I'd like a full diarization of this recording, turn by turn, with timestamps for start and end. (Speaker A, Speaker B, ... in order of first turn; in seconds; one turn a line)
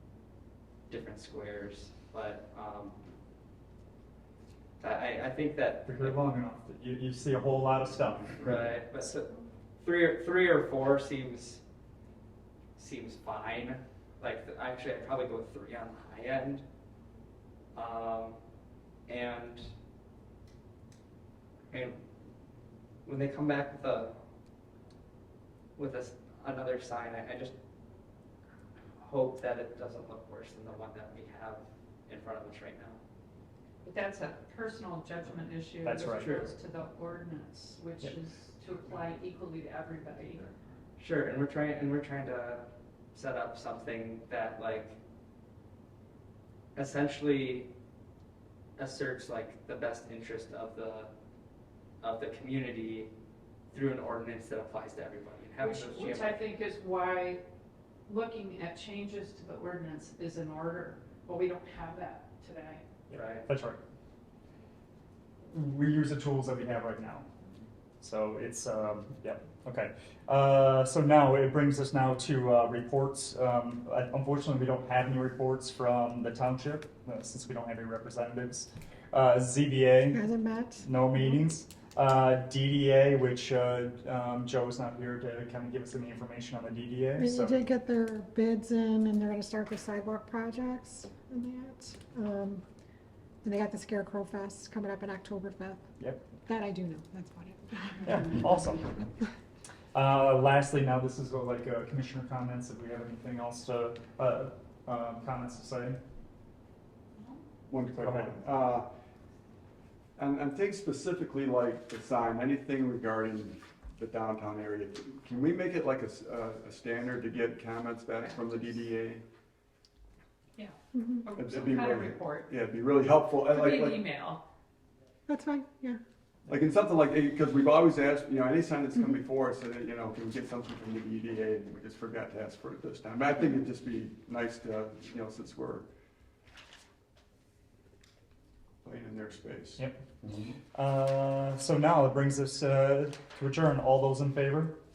Speaker A: 0.9-3.0
Speaker A: 4.8-6.2
Speaker B: 5.8-8.7
Speaker A: 8.4-11.6
Speaker A: 12.8-16.6
Speaker A: 17.7-18.4
Speaker A: 19.1-19.7
Speaker A: 21.7-22.0
Speaker A: 23.1-24.1
Speaker A: 25.8-27.5
Speaker A: 29.0-33.0
Speaker C: 33.8-40.5
Speaker B: 35.8-36.3
Speaker A: 36.0-36.5
Speaker A: 41.0-45.0
Speaker A: 46.7-47.7
Speaker A: 48.8-51.1
Speaker A: 52.0-53.1
Speaker A: 53.7-56.4
Speaker C: 55.6-57.4
Speaker C: 58.1-62.8
Speaker B: 63.1-63.8
Speaker A: 63.1-63.5
Speaker B: 65.5-67.3
Speaker B: 68.0-80.2
Speaker D: 80.1-80.9
Speaker B: 80.8-87.6
Speaker D: 87.2-92.6
Speaker D: 93.4-95.8
Speaker B: 96.0-96.3
Speaker D: 96.5-98.5
Speaker B: 98.0-98.9
Speaker B: 99.9-106.0
Speaker C: 107.2-107.4
Speaker E: 107.7-108.9
Speaker B: 108.0-108.4
Speaker E: 110.2-119.2
Speaker C: 120.5-122.5
Speaker D: 120.9-121.2
Speaker E: 121.3-124.1
Speaker C: 123.4-124.4
Speaker D: 125.3-126.0
Speaker E: 126.5-135.8
Speaker E: 138.8-139.8
Speaker B: 139.8-140.0
Speaker B: 140.7-144.8